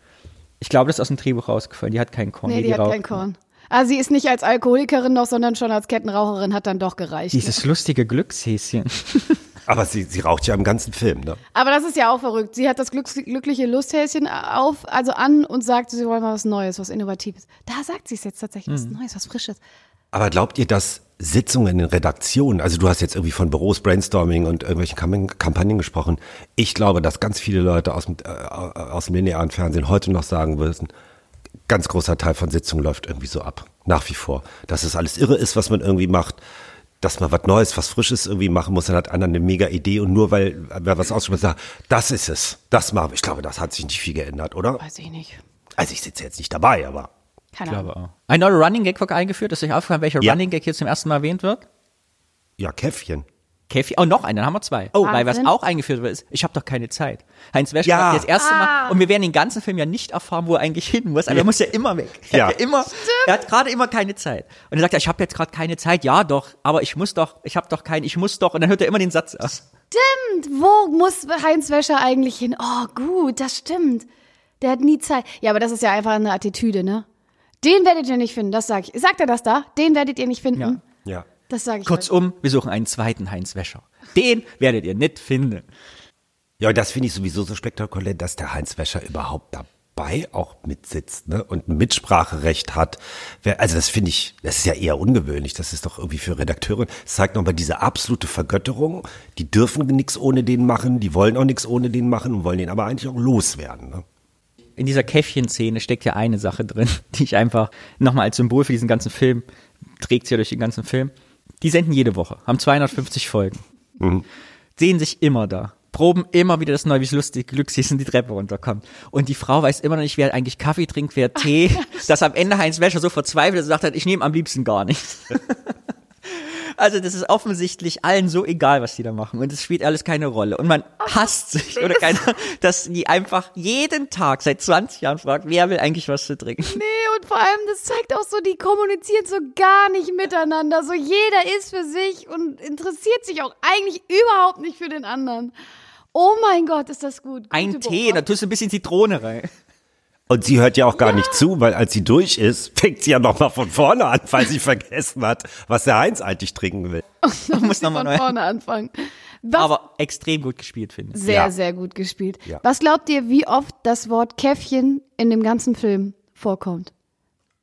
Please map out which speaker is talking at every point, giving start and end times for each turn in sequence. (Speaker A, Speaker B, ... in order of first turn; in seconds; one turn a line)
Speaker A: 0.6-3.2
Speaker B: 2.5-7.6
Speaker A: 7.3-9.4
Speaker C: 9.7-11.4
Speaker B: 11.5-19.6
Speaker A: 18.7-18.9
Speaker C: 20.1-30.9
Speaker C: 31.7-36.4
Speaker C: 37.0-44.8
Speaker B: 44.8-45.4
Speaker C: 45.8-47.1
Speaker B: 47.5-47.9
Speaker A: 47.6-51.6
Speaker C: 52.6-53.2
Speaker A: 53.7-69.6
Speaker B: 55.0-55.5
Speaker C: 57.8-58.3
Speaker B: 58.4-59.0
Speaker C: 62.3-62.6
Speaker B: 62.9-63.4
Speaker B: 69.9-74.0
Speaker B: 74.6-77.0
Speaker B: 77.6-80.8
Speaker B: 81.5-82.1
Speaker A: 81.8-85.7
Speaker C: 86.6-104.0
Speaker A: 104.8-109.5
Speaker A: 110.0-113.6
Speaker C: 114.0-114.2
Speaker A: 114.8-136.8
Speaker B: 131.8-132.1
Speaker B: 136.6-145.5
Speaker B: 146.1-148.2
Speaker A: 147.5-149.5
Speaker C: 150.3-157.0
Speaker B: 151.0-151.4
Speaker B: 157.2-158.9
Speaker A: 157.5-158.3
Speaker B: 159.4-159.7
Speaker A: 159.5-161.2
Speaker B: 161.1-166.9
Speaker C: 161.2-161.5